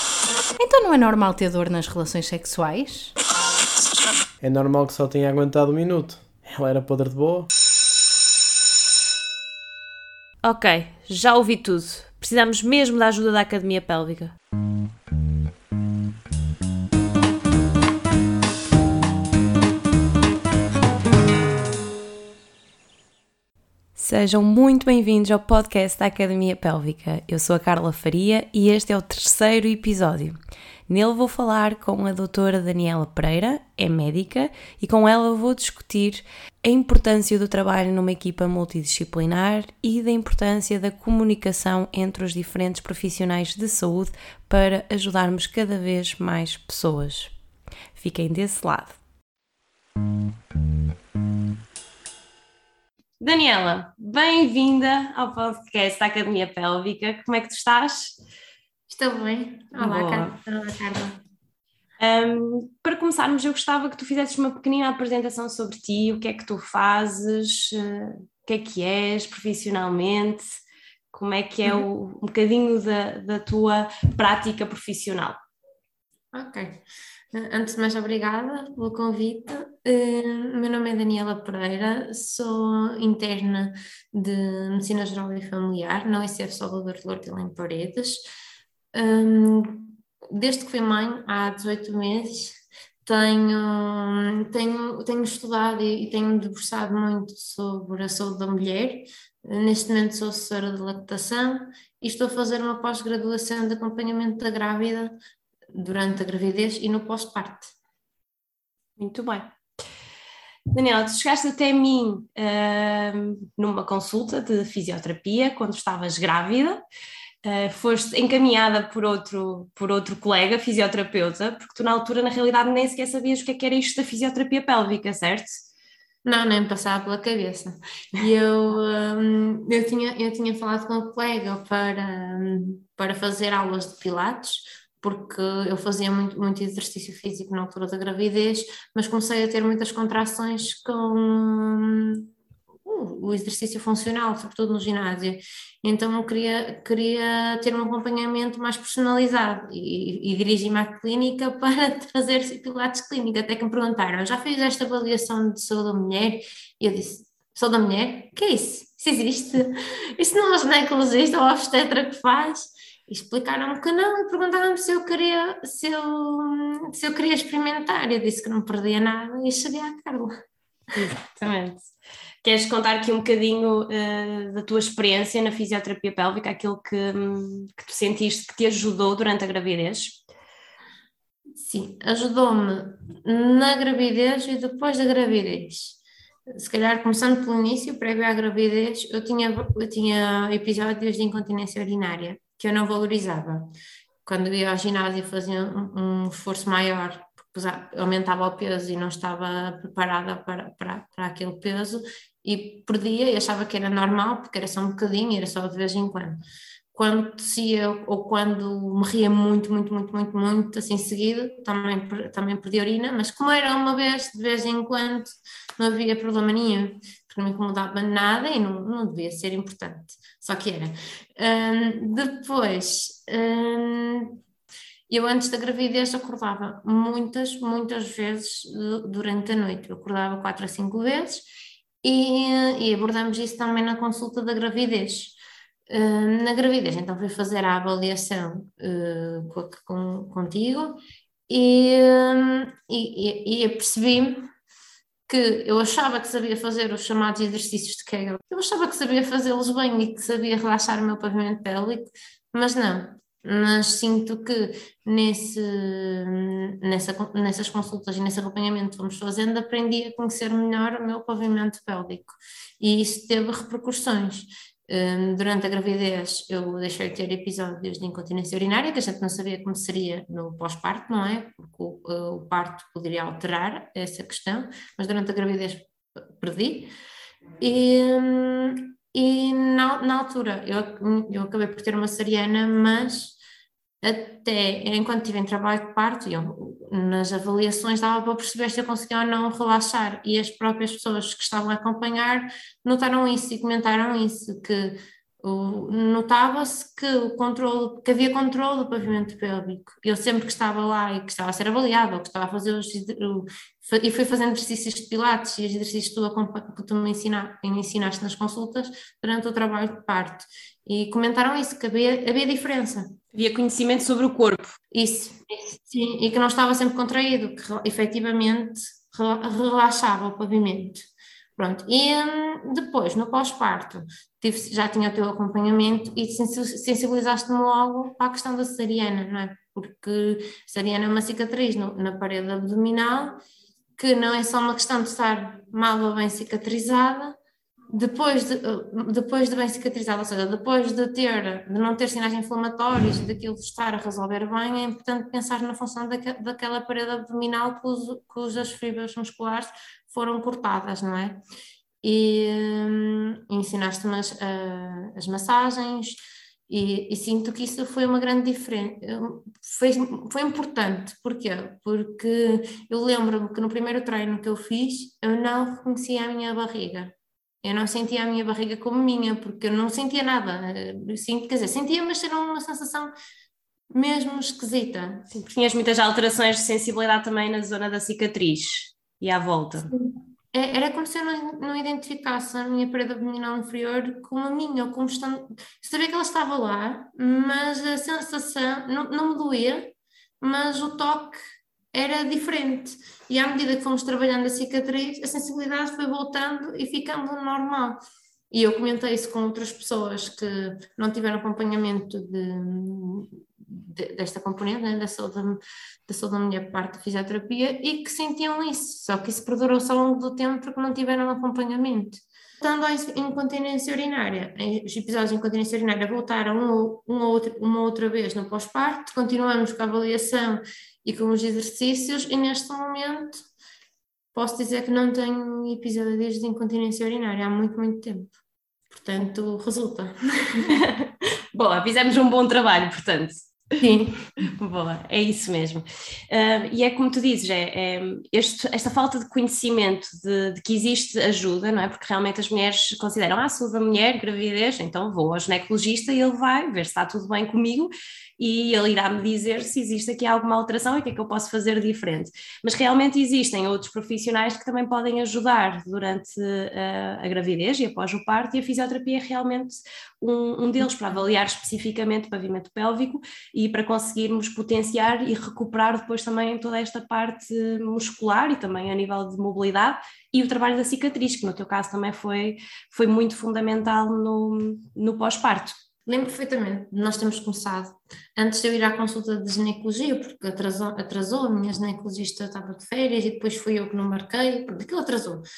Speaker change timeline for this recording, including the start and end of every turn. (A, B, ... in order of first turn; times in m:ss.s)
0:00.6-0:03.1 A
0:04.4-0:07.5 B
0:10.4-0:14.4 C
0:24.0-0:30.4 C
0:30.9-0:47.3 C
0:48.0-0:49.0 C
0:53.2-0:58.1 C
0:58.9-1:01.2 D
0:59.8-1:00.4 C
1:02.0-1:10.6 C
1:11.1-1:15.4 C
1:16.3-1:16.8 D
1:17.3-1:28.2 D
1:28.9-1:45.1 D
1:45.7-1:47.7 D
1:49.0-1:49.5 C
1:50.7-1:56.8 C
1:57.4-2:05.6 C
2:06.2-2:22.3 D
2:22.8-2:50.3 D
2:50.9-2:51.9 C
2:52.4-3:00.2 C
3:01.6-3:13.7 D
3:14.2-3:26.4 D
3:26.9-3:44.4 D
3:45.1-3:51.4 D
3:52.0-3:55.4 D
3:55.9-4:04.5 D
4:05.3-4:36.9 D
4:37.6-4:43.4 D
4:44.0-5:13.2 D
5:13.3-5:14.8 C
5:14.9-5:33.4 D
5:34.0-5:37.4 D
5:37.9-5:51.4 D
5:52.0-5:56.2 D
5:56.7-6:13.1 D
6:13.9-6:15.3 D
6:15.3-6:19.9 C
6:19.8-6:31.4 D
6:31.9-6:38.0 D
6:38.5-7:03.4 D
7:04.3-7:08.3 D
7:08.9-7:10.8 D
7:10.6-7:13.5 C
7:13.8-7:14.3 D
7:14.4-7:55.7 C
7:56.0-8:05.4 D